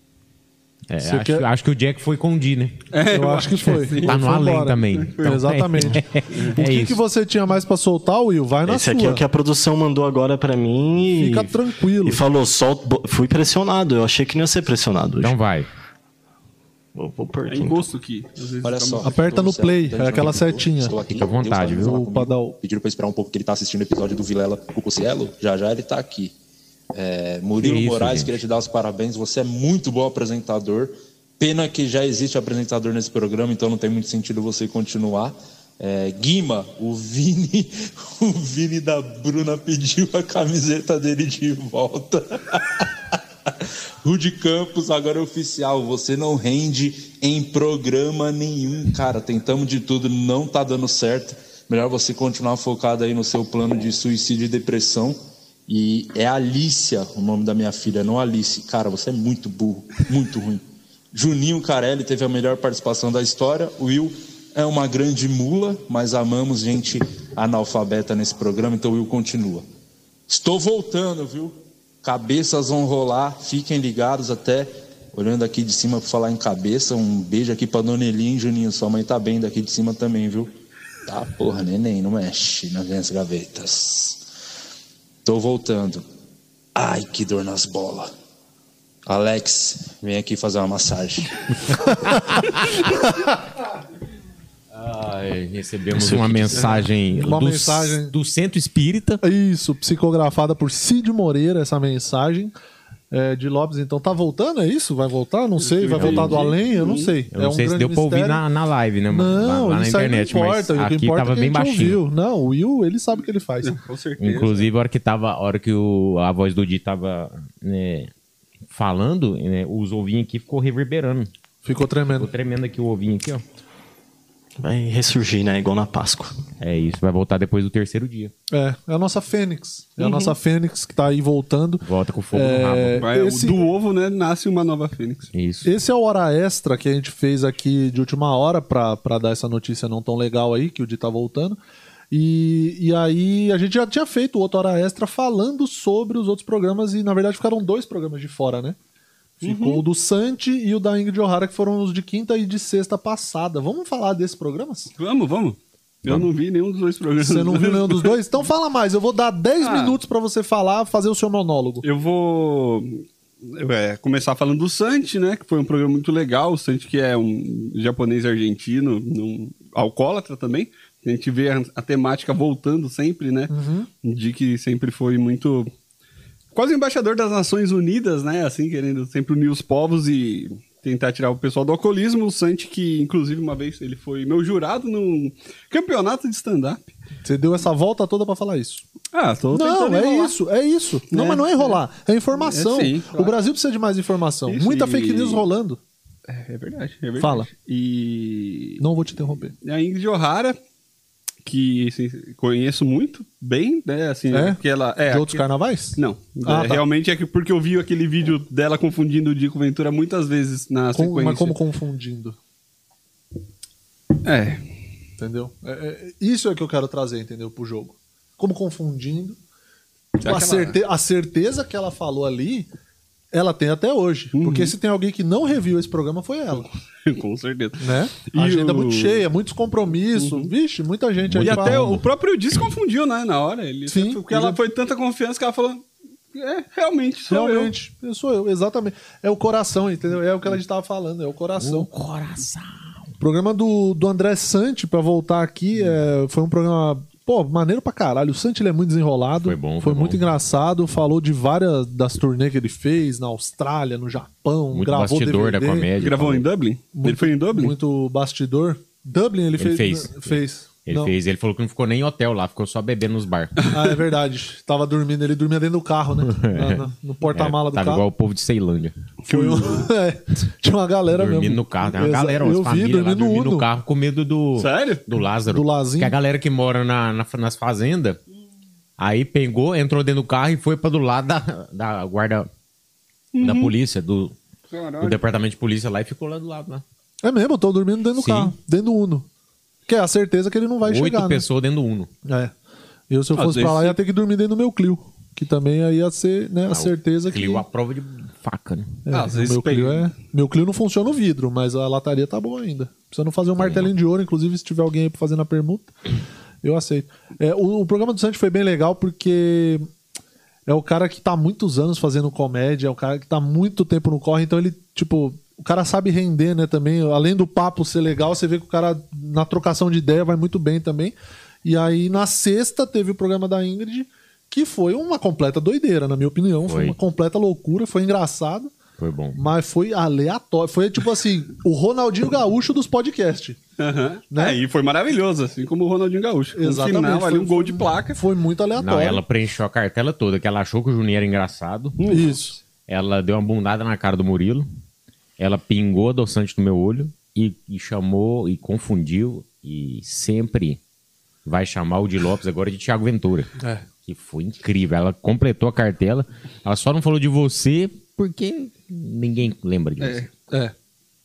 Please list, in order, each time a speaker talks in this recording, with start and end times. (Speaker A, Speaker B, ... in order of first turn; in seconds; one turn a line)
Speaker A: 0.9-2.8
Speaker B: 1.0-1.5
Speaker C: 2.9-4.2
Speaker B: 3.1-9.2
Speaker A: 3.8-7.0
Speaker C: 4.9-5.4
Speaker D: 8.7-15.4
Speaker B: 11.2-12.2
Speaker A: 15.2-15.7
Speaker D: 16.9-17.9
Speaker C: 17.5-19.2
Speaker E: 18.6-26.3
Speaker B: 19.0-21.0
Speaker A: 21.1-22.0
Speaker B: 21.7-22.6
Speaker E: 26.9-42.9
Speaker A: 27.6-28.3
Speaker E: 44.0-69.7
Speaker E: 70.3-80.5
Speaker E: 81.1-84.2
Speaker E: 85.2-86.0
Speaker E: 86.8-88.1
Speaker E: 89.1-92.2
Speaker A: 94.7-99.2
Speaker D: 95.9-96.8
Speaker B: 97.1-98.1
Speaker B: 99.2-102.5
Speaker B: 103.1-108.4
Speaker C: 105.6-107.1
Speaker A: 106.0-106.4
Speaker A: 107.3-112.0
Speaker B: 109.1-113.8
Speaker C: 113.6-114.7
Speaker A: 114.2-118.1
Speaker A: 118.7-121.3
Speaker B: 121.6-122.3
Speaker A: 122.2-123.4
Speaker D: 124.6-126.4
Speaker A: 126.6-128.3
Speaker B: 128.5-133.6
Speaker C: 130.0-130.3
Speaker A: 131.8-133.1
Speaker C: 133.0-135.3
Speaker A: 135.3-135.7
Speaker B: 135.6-141.6
Speaker B: 142.1-148.8
Speaker B: 149.4-154.9
Speaker C: 149.4-149.8
Speaker C: 155.0-158.2
Speaker B: 157.2-161.8
Speaker C: 159.6-160.0
Speaker C: 161.8-173.5
Speaker B: 173.5-173.9
Speaker C: 174.0-175.7
Speaker C: 176.5-186.9
Speaker B: 187.2-188.8
Speaker C: 189.1-190.3
Speaker B: 189.5-195.8
Speaker C: 191.1-191.8
Speaker C: 192.3-193.4
Speaker C: 194.5-195.4
Speaker C: 196.3-198.8
Speaker B: 197.2-197.5
Speaker B: 198.8-199.6
Speaker C: 199.6-200.6
Speaker C: 201.4-205.4
Speaker B: 204.3-206.8
Speaker C: 206.0-211.6
Speaker B: 210.9-212.4
Speaker C: 214.2-214.6
Speaker B: 215.2-219.4
Speaker B: 220.2-222.7
Speaker C: 220.2-220.8
Speaker B: 223.3-226.7
Speaker C: 224.3-224.7
Speaker C: 226.6-229.2
Speaker B: 227.8-231.9
Speaker C: 230.2-230.5
Speaker A: 231.3-232.1
Speaker C: 231.4-237.7
Speaker B: 233.9-234.6
Speaker B: 237.3-241.9
Speaker A: 241.6-242.8
Speaker B: 243.2-255.9
Speaker A: 249.4-250.2
Speaker A: 254.7-256.5
Speaker C: 256.0-257.8
Speaker B: 256.9-261.1
Speaker A: 259.6-263.6
Speaker C: 263.6-263.9
Speaker B: 263.7-268.1
Speaker A: 266.2-269.0
Speaker C: 269.2-269.9
Speaker B: 269.3-273.7
Speaker A: 271.1-278.2
Speaker C: 274.6-275.1
Speaker B: 275.5-276.1
Speaker A: 279.0-282.5
Speaker C: 283.3-283.7
Speaker A: 283.4-284.4
Speaker C: 284.7-285.2
Speaker A: 285.0-286.8
Speaker B: 287.2-289.3
Speaker A: 288.2-288.5
Speaker B: 289.9-291.5
Speaker A: 290.8-292.1
Speaker B: 292.3-292.5
Speaker B: 293.1-297.6
Speaker C: 293.3-294.0
Speaker A: 296.7-299.0
Speaker B: 299.1-305.9
Speaker C: 299.1-300.1
Speaker A: 303.6-303.9
Speaker B: 306.6-309.9
Speaker B: 310.7-321.1
Speaker B: 321.6-328.7
Speaker A: 326.7-327.0
Speaker A: 329.0-329.4
Speaker B: 329.3-333.6
Speaker C: 333.8-338.2
Speaker B: 334.3-334.6
Speaker B: 336.6-339.2
Speaker A: 338.8-342.2
Speaker C: 342.0-342.4
Speaker B: 342.1-342.6
Speaker A: 342.9-344.7
Speaker A: 345.4-350.8
Speaker A: 351.4-353.5
Speaker B: 353.6-353.9
Speaker A: 354.1-360.3
Speaker C: 360.0-360.3